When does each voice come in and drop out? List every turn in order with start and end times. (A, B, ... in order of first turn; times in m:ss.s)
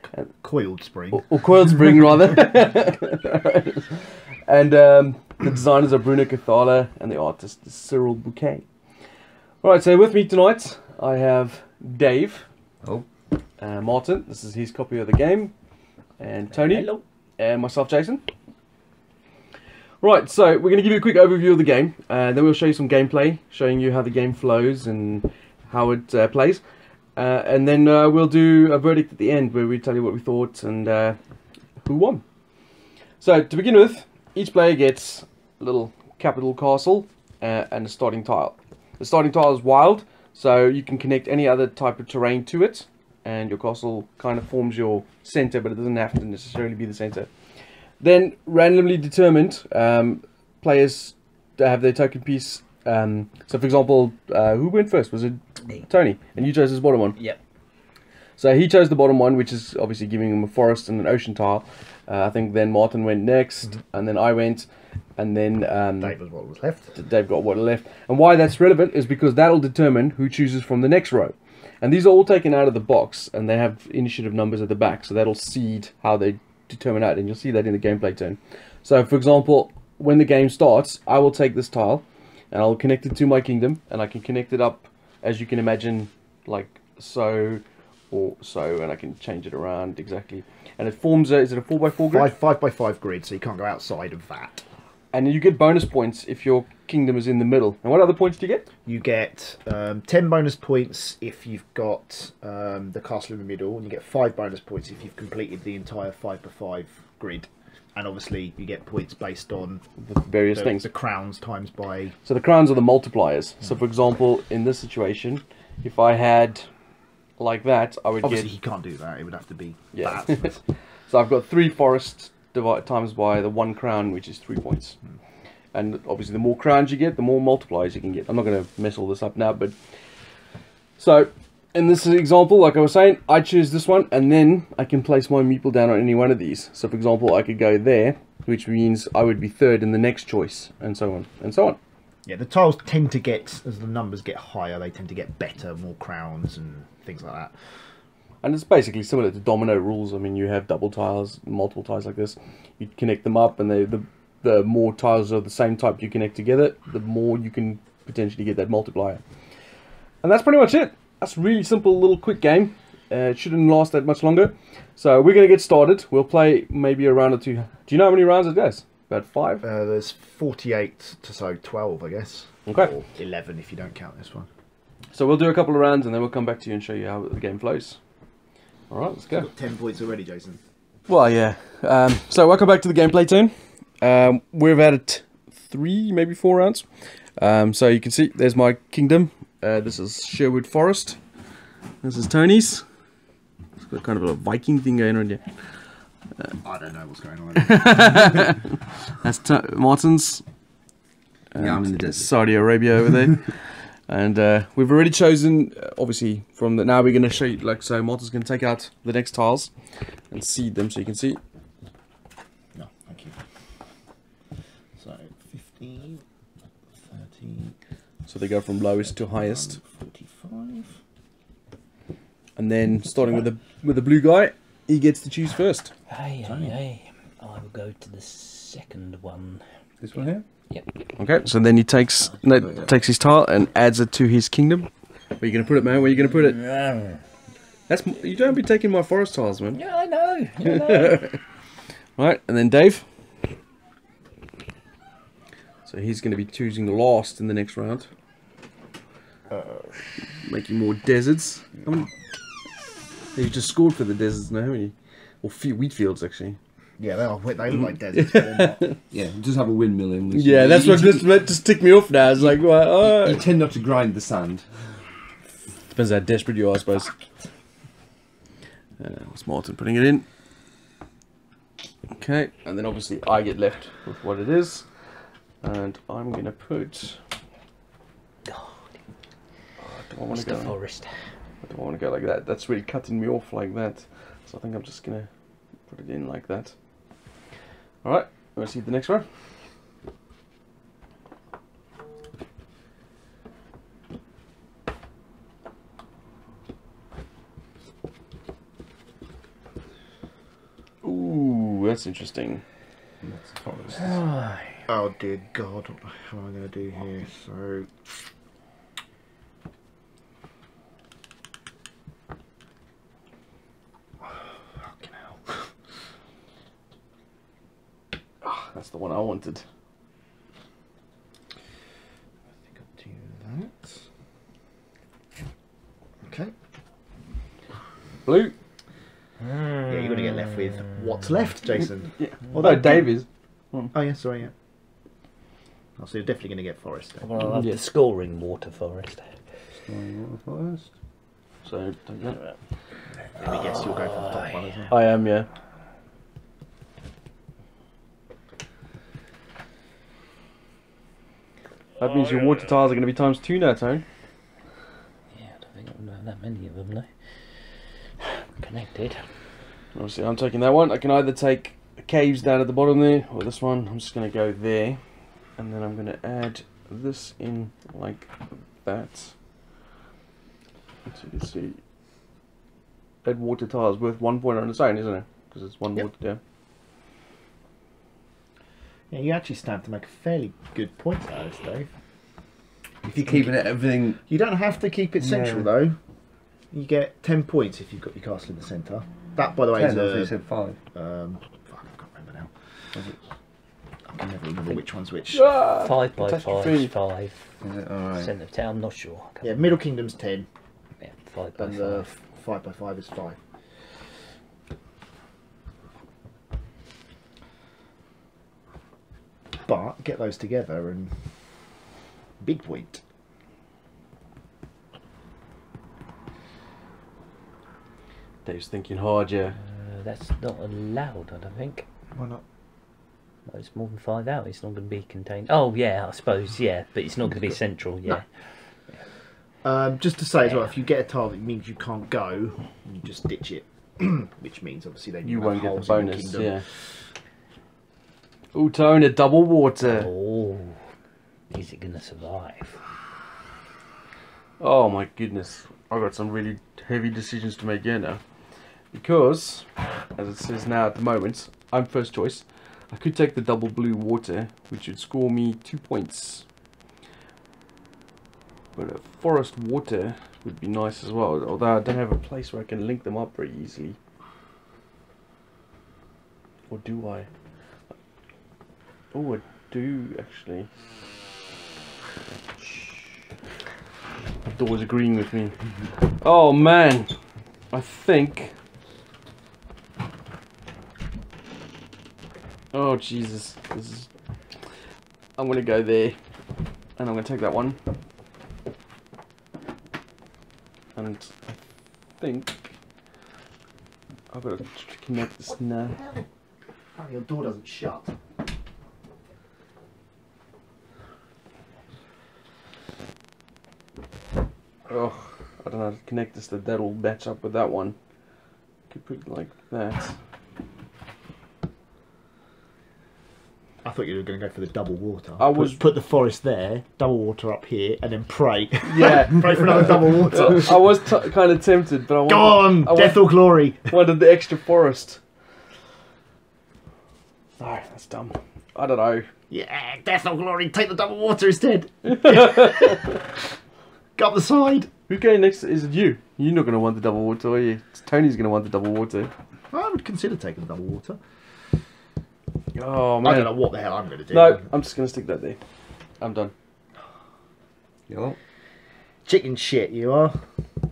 0:00.2-0:02.1 A
0:01.1-0:08.6 B
0:09.6-0:12.5 B
0:13.6-0:15.5 B
0:16.2-0:18.2 B
0:16.5-0:17.0 C
0:20.0-0:26.6 B
0:27.2-0:31.2 B
0:31.8-0:32.2 B
0:33.2-0:47.3 B
0:48.0-0:57.2 B
0:58.4-1:06.2 B
1:06.0-1:07.0 A
1:06.9-1:32.3 B
1:32.1-1:34.6 A
1:35.1-1:38.6 B
1:38.8-1:49.8 A
1:50.0-1:50.8 B
1:50.5-1:52.1 A
1:52.2-1:56.7 B
1:57.4-1:58.5 B
1:58.2-2:00.6 A
1:59.9-2:00.5 B
2:01.1-2:05.0 B
2:05.7-2:09.8 B
2:11.0-2:21.8 B
2:22.2-2:27.5 A
2:28.4-2:39.2 B
2:40.2-2:49.6 B
2:49.6-2:54.5 A
2:52.7-2:52.9 B
2:55.1-2:58.0 B
2:58.9-2:59.5 B
2:59.3-3:00.6 A
3:01.1-3:06.8 B
3:07.4-3:11.2 B
3:12.0-3:12.8 B
3:13.8-3:15.4 B
3:16.6-3:18.5 A
3:17.6-3:20.4 B
3:21.5-3:29.7 B
3:21.6-3:22.3 D
3:30.3-3:31.4 B
3:32.7-3:33.4 A
3:35.0-3:36.2 A
3:37.1-3:37.7 A
3:38.2-3:39.8 B
3:39.0-3:41.0 A
3:42.6-3:45.9 B
3:46.1-3:49.6 C
3:46.4-3:46.8 A
3:50.0-3:50.4 D
3:50.2-3:50.9 C
3:51.2-3:56.7 B
3:56.6-3:57.2 C
3:57.9-3:59.8 B
3:59.7-4:01.2 C
4:00.6-4:01.4 B
4:02.2-4:03.0 B
4:05.8-4:08.1 B
4:09.5-4:10.2 A
4:10.3-4:12.1 B
4:13.3-4:16.6 B
4:17.0-4:18.8 A
4:18.1-4:19.0 B
4:19.1-4:21.3 D
4:20.3-4:23.4 B
4:23.0-4:24.8 D
4:25.9-4:27.1 B
4:29.0-4:30.2 B
4:32.1-4:34.9 B
4:35.6-4:37.2 B
4:38.4-4:39.0 C
4:39.8-4:40.8 B
4:40.3-4:41.3 C
4:41.6-4:46.8 B
4:48.0-4:49.2 B
5:01.0-5:02.6 B
5:03.2-5:04.2 D
5:04.0-5:04.8 C
5:04.9-5:08.1 A
5:14.2-5:15.7 A
5:18.4-5:19.6 B
5:22.7-5:24.0 A
5:26.2-5:26.5 A
5:28.2-5:28.6 B
5:29.8-5:33.2 A
5:32.2-5:33.9 B
5:33.9-5:34.5 A
5:36.0-5:37.3 A
5:37.2-5:39.4 C
5:39.7-5:40.9 D
5:41.6-5:42.4 B
5:43.4-5:44.9 A
5:43.4-5:44.8 C
5:44.9-5:45.5 B
5:52.0-5:54.0 B
5:55.3-5:59.2 C
5:59.9-6:05.0 B
6:05.5-6:09.3 B
6:11.1-6:11.8 B
6:13.2-6:16.4 B
6:19.1-6:21.9 A
6:23.0-6:24.2 D
6:23.2-6:23.7 A
6:24.2-6:26.0 A
6:25.2-6:25.7 D
6:26.7-6:30.4 A
6:29.7-6:30.8 D
6:30.9-6:32.5 A
6:34.1-6:35.5 A
6:35.3-6:36.9 B
6:35.8-6:39.6 C
6:37.6-6:38.3 D
6:39.4-6:40.5 A
6:41.0-6:42.1 C
6:41.6-6:43.4 A
6:49.6-6:51.3 A
6:52.4-6:53.0 A
6:58.4-6:59.6 B
6:59.5-7:01.8 C
7:02.1-7:02.4 A
7:03.4-7:08.9 C
7:09.6-7:16.8 A
7:10.4-7:10.7 C
7:15.2-7:16.6 B
7:18.5-7:20.1 B
7:19.8-7:20.8 C
7:21.5-7:22.8 C
7:24.6-7:28.2 B
7:28.9-7:36.4 B
7:38.7-7:44.0 B
7:46.7-7:47.3 B
7:49.1-7:50.7 B
7:54.5-7:57.2 B
7:57.7-7:58.5 B
8:02.7-8:04.1 B
8:05.4-8:06.2 B
8:07.0-8:07.8 B
8:10.9-8:11.6 B
8:12.2-8:12.7 B
8:14.3-8:16.0 B
8:15.8-8:16.2 A
8:16.9-8:18.2 A
8:24.9-8:28.0 B
8:28.9-8:30.2 B
8:33.8-8:41.0 A
8:35.4-8:35.8 B
8:38.8-8:43.2 B
8:42.2-8:43.9 A
8:43.8-8:45.2 B
8:47.6-8:49.3 B
8:49.5-8:53.4 A
8:52.1-8:52.9 B
8:54.2-8:54.9 A
8:55.1-8:59.3 B
8:59.7-9:01.2 A
9:02.7-9:03.6 B
9:03.2-9:04.7 A
9:04.3-9:05.6 B
9:06.2-9:06.5 B
9:08.1-9:08.4 D
9:09.2-9:10.4 A